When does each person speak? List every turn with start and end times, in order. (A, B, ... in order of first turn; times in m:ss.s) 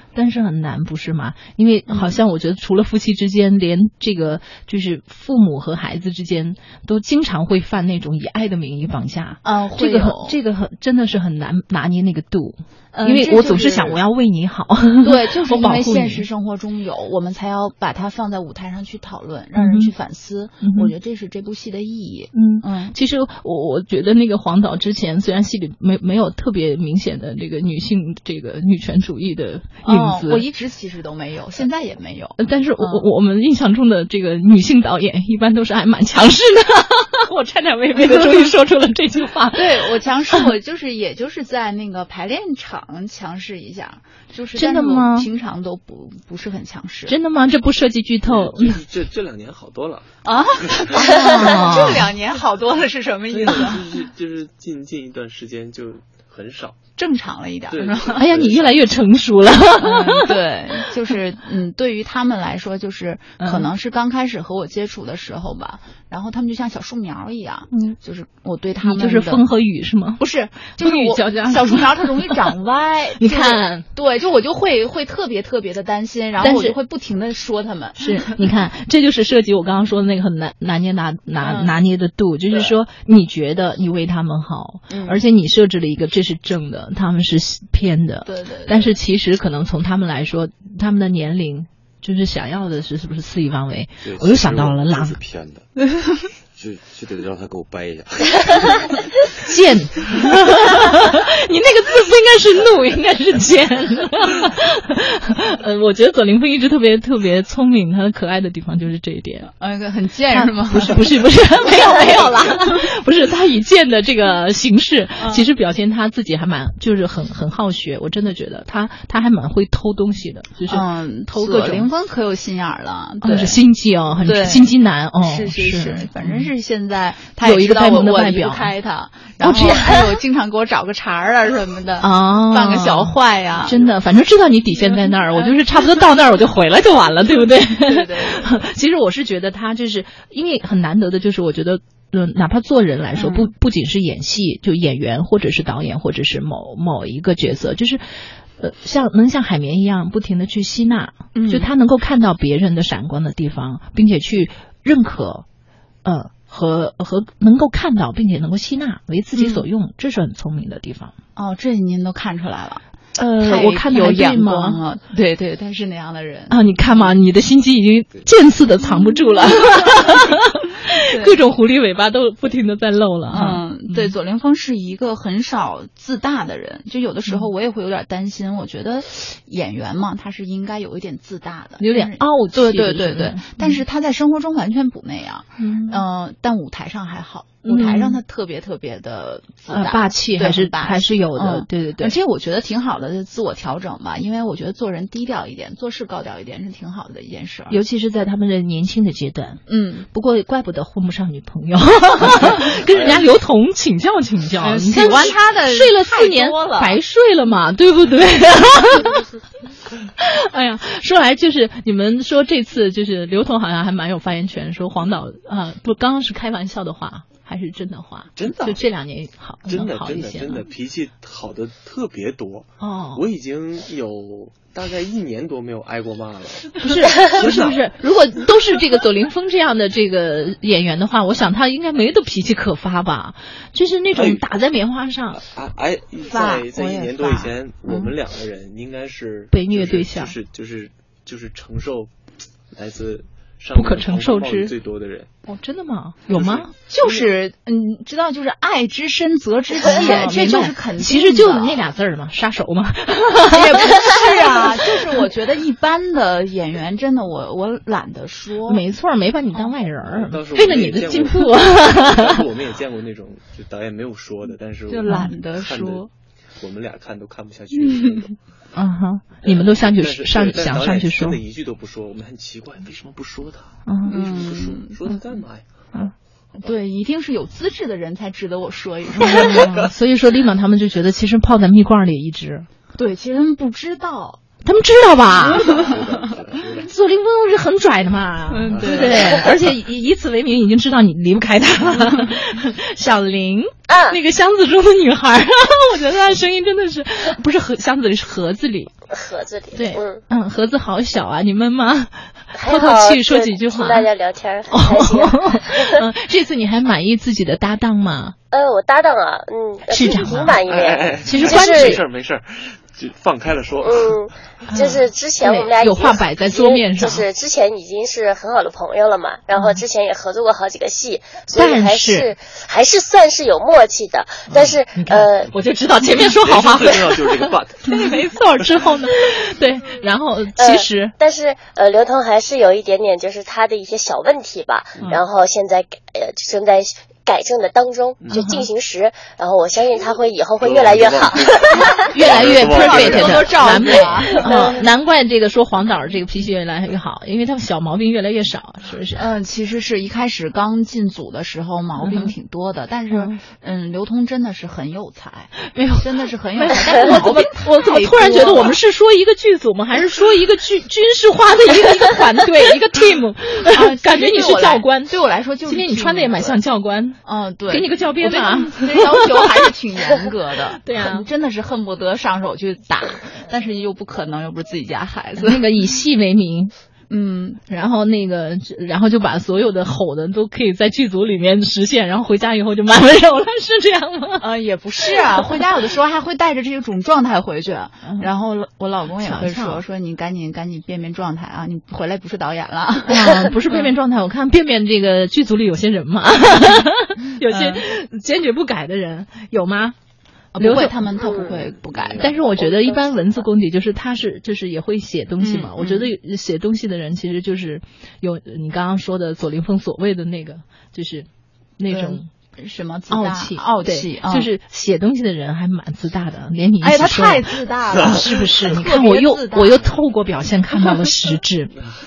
0:00.2-0:16.3 A
0:01.9-0:02.2 B
0:09.4-0:10.4 B
0:12.9-0:14.0 B
0:15.0-0:23.0 B
0:19.6-0:19.9 A
0:20.6-0:20.9 A
0:22.3-0:30.4 A
0:29.8-0:33.1 B
0:32.4-0:40.4 A
0:38.0-0:38.5 B
0:39.5-0:47.2 B
0:44.6-0:45.3 A
0:47.1-0:48.8 A
0:48.2-0:50.1 C
0:50.2-0:53.9 B
0:50.6-0:51.1 C
0:51.1-0:52.1 A
0:53.3-0:56.8 C
0:57.0-0:58.3 B
0:57.7-0:58.8 C
0:58.2-1:00.4 A
0:59.8-1:09.5 B
1:03.4-1:03.7 A
1:08.8-1:10.2 A
1:10.2-1:18.4 B
1:10.8-1:12.5 A
1:13.2-1:13.9 A
1:16.4-1:16.8 A
1:18.0-1:35.2 A
1:21.4-1:21.8 B
1:24.9-1:25.2 B
1:28.2-1:29.0 B
1:34.0-1:35.7 D
1:36.5-1:39.3 D
1:39.4-1:49.5 A
1:49.6-1:52.9 B
1:50.3-2:01.9 A
1:55.2-1:55.5 B
2:00.7-2:03.6 B
2:03.2-2:06.5 A
2:04.2-2:13.8 B
2:07.4-2:08.7 A
2:09.4-2:10.0 A
2:12.0-2:35.4 A
2:14.9-2:15.6 B
2:17.7-2:18.6 B
2:23.2-2:23.5 B
2:31.3-2:31.7 B
2:36.0-2:41.1 A
2:39.4-2:39.7 B
2:41.4-2:42.8 B
2:43.2-2:44.8 A
2:43.4-2:47.1 B
2:46.5-2:54.1 A
2:48.8-2:50.4 B
2:51.1-2:51.4 B
2:53.3-3:17.8 B
3:01.8-3:03.8 A
3:05.6-3:06.0 A
3:07.6-3:08.2 A
3:09.7-3:12.2 A
3:17.7-3:29.3 A
3:19.7-3:20.1 B
3:22.2-3:23.3 C
3:24.6-3:27.0 B
3:30.2-3:40.6 A
3:38.4-3:38.8 C
3:39.6-3:47.8 C
3:42.8-3:43.2 A
3:46.8-3:55.4 A
3:54.1-3:54.5 C
3:55.4-4:02.1 C
3:56.3-3:58.1 B
3:56.4-3:58.0 A
3:59.5-4:00.4 A
4:02.7-4:05.3 C
4:03.7-4:04.7 A
4:05.5-4:06.7 A
4:06.3-4:07.3 C
4:06.8-4:11.9 B
4:09.8-4:14.2 A
4:13.5-4:18.8 B
4:18.7-4:22.4 A
4:20.0-4:28.4 C
4:24.9-4:26.1 B
4:25.1-4:25.3 A
4:27.9-4:28.2 B
4:28.7-4:31.4 A
4:29.4-4:35.7 C
4:33.9-4:34.2 A
4:34.1-4:35.0 B
4:36.6-4:39.9 B
4:39.3-4:42.7 A
4:39.6-4:39.9 C
4:43.0-4:44.4 B
4:44.6-4:45.7 A
4:45.5-4:46.3 B
4:45.6-4:46.8 C
4:45.7-4:46.9 D
4:46.8-4:58.9 A
4:48.5-4:49.5 B
4:53.9-4:54.2 E
4:59.1-5:00.2 E
4:59.8-5:04.1 A
5:02.5-5:06.0 E
5:04.7-5:08.4 A
5:08.5-5:12.0 E
5:09.9-5:10.6 A
5:10.7-5:14.2 C
5:11.2-5:12.0 A
5:13.8-5:25.5 E
5:14.7-5:17.2 A
5:19.5-5:19.8 A
5:21.6-5:22.3 A
5:24.6-5:31.1 A
5:26.2-5:29.1 C
5:30.6-5:42.0 E
5:38.2-5:38.6 C
5:38.3-5:38.7 A
5:40.6-5:43.8 C
5:42.0-5:44.8 B
5:42.1-5:49.3 A
5:44.2-5:44.8 E
5:49.2-5:58.8 B
5:52.0-5:52.3 A
5:53.1-5:53.4 A
5:55.6-6:05.1 A
6:03.7-6:06.6 B
6:05.7-6:09.7 A
6:07.2-6:15.7 B
6:10.8-6:11.3 A
6:15.4-6:16.7 A
6:17.1-6:17.6 B
6:17.7-6:24.5 A
6:24.4-6:33.9 B
6:29.2-6:29.8 A
6:33.1-6:40.0 A
6:37.4-6:37.8 B
6:40.6-6:43.2 B
6:40.6-6:41.0 A
6:41.2-6:41.5 E
6:41.5-6:42.4 C
6:42.2-6:52.3 A
6:45.4-6:46.1 B
6:51.9-6:54.5 B
6:53.1-7:01.8 A
6:56.8-7:00.0 B